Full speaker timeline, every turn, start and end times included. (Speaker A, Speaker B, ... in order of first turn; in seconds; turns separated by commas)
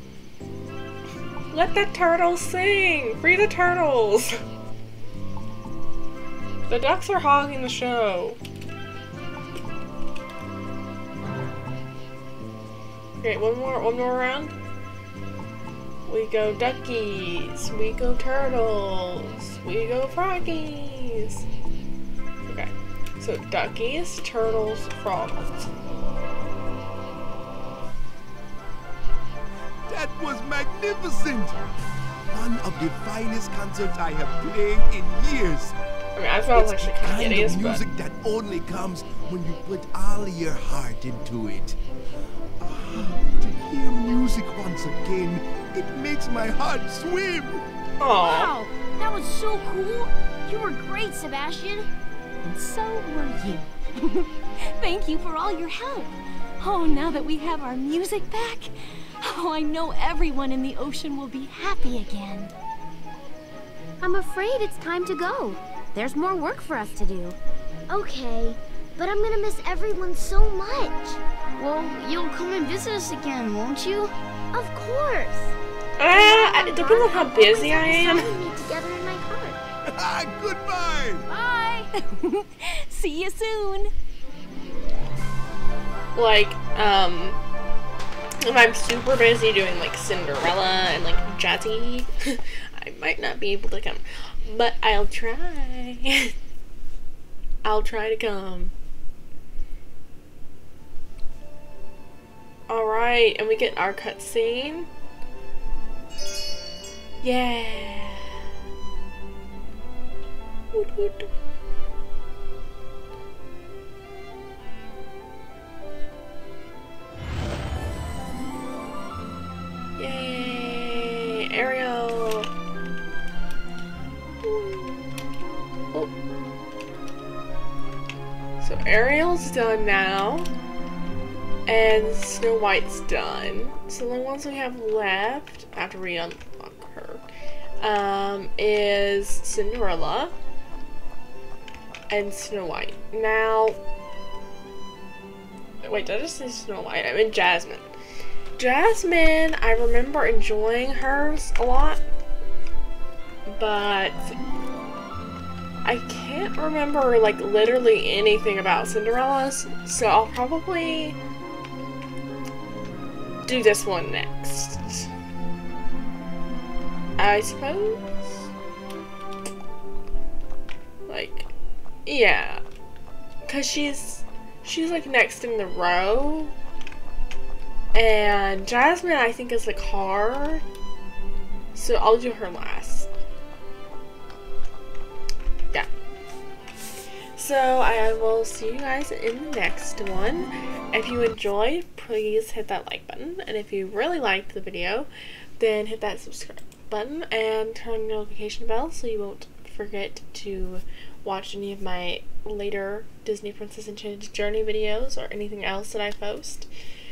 Speaker A: 1.5-4.4, Speaker A: 6.7-8.4, Speaker A: 13.2-14.5, Speaker A: 16.1-21.4, Speaker A: 22.4-25.7, Speaker B: 29.9-31.7, Speaker B: 32.3-35.8, Speaker A: 36.2-37.8, Speaker B: 36.5-41.8, Speaker B: 42.6-47.6, Speaker A: 48.0-48.5, Speaker C: 48.2-51.9, Speaker D: 52.4-62.5, Speaker E: 64.0-67.4, Speaker F: 67.9-71.2, Speaker C: 71.6-74.1, Speaker F: 74.5-75.5, Speaker A: 76.0-78.3, Speaker F: 76.1-79.6, Speaker B: 79.9-81.3, Speaker C: 81.3-81.9, Speaker D: 82.0-83.9, Speaker A: 86.1-87.4, Speaker A: 88.4-96.3, Speaker A: 97.6-98.7, Speaker A: 102.7-104.9, Speaker A: 107.2-108.3, Speaker A: 110.7-111.3, Speaker A: 120.0-122.5, Speaker A: 124.4-124.9, Speaker A: 128.6-130.5, Speaker A: 131.7-137.2, Speaker A: 137.8-140.3, Speaker A: 142.1-143.8, Speaker A: 145.8-147.9, Speaker A: 148.6-152.0, Speaker A: 153.5-154.3, Speaker A: 155.8-161.2, Speaker A: 163.4-165.1, Speaker A: 167.2-168.5, Speaker A: 171.1-171.5, Speaker A: 172.1-172.6, Speaker A: 173.5-176.5, Speaker A: 177.9-180.6, Speaker A: 181.7-183.1, Speaker A: 187.4-206.7